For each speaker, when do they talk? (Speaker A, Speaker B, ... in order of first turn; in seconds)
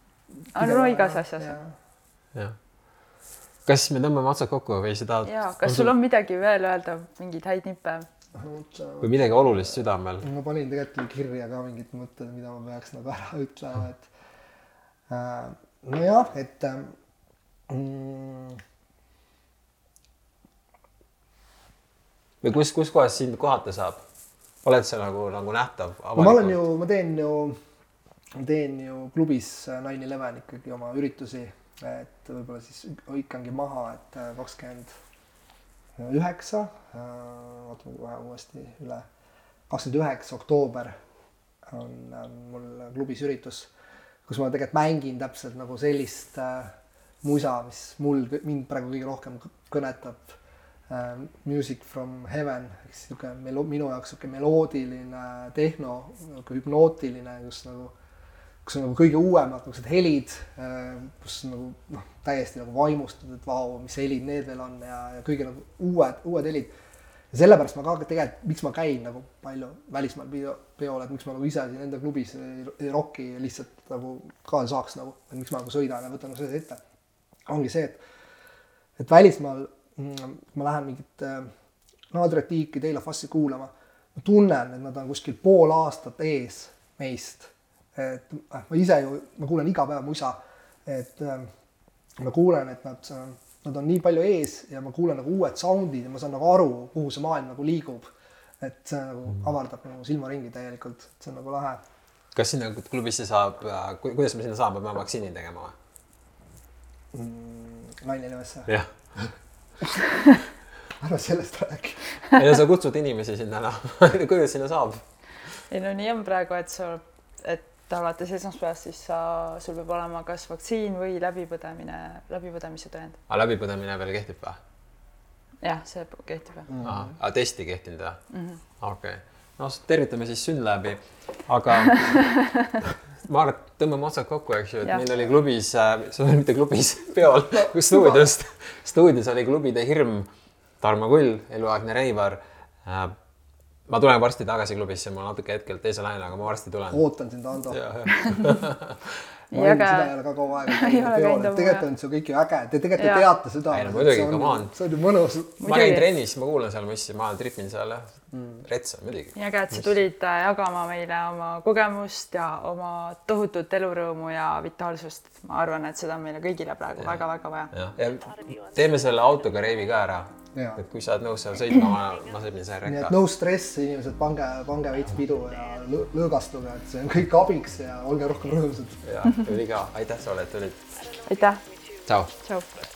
Speaker A: 0.5-1.8, 8.3-14.1, 15.1-16.9, 17.7-18.6, 26.2-27.6, 28.4-34.9, 36.0-39.0, 39.7-41.0, 41.6-43.7, 44.3-50.4, 50.9-57.9, 58.6-66.7, 67.3-76.8, 77.5-78.0, 79.0-81.5, 82.1-91.5, 92.2-101.8, 107.1-110.0, 111.0-112.0, 126.7-127.1, 137.5-138.3, 146.9-147.8, 149.5-155.6, 158.3-158.6, 170.5-170.8, 172.8-179.0
Speaker B: 0.5-1.6, 5.2-8.1, 115.7-123.2, 125.6-126.7, 128.3-128.6, 149.5-150.1, 150.7-151.8, 153.0-153.2, 155.6-156.1, 159.3-167.7, 181.2-181.6, 182.4-182.7
Speaker C: 3.6-5.9, 9.0-10.3, 22.4-24.0, 24.6-26.6, 102.3-105.7, 112.3-115.0, 123.3-124.6, 126.8-128.2, 128.8-140.3, 140.8-143.1, 143.9-147.0, 147.6-149.1, 153.7-154.7, 155.6-160.0, 167.7-173.1, 179.0-180.8, 182.1-182.3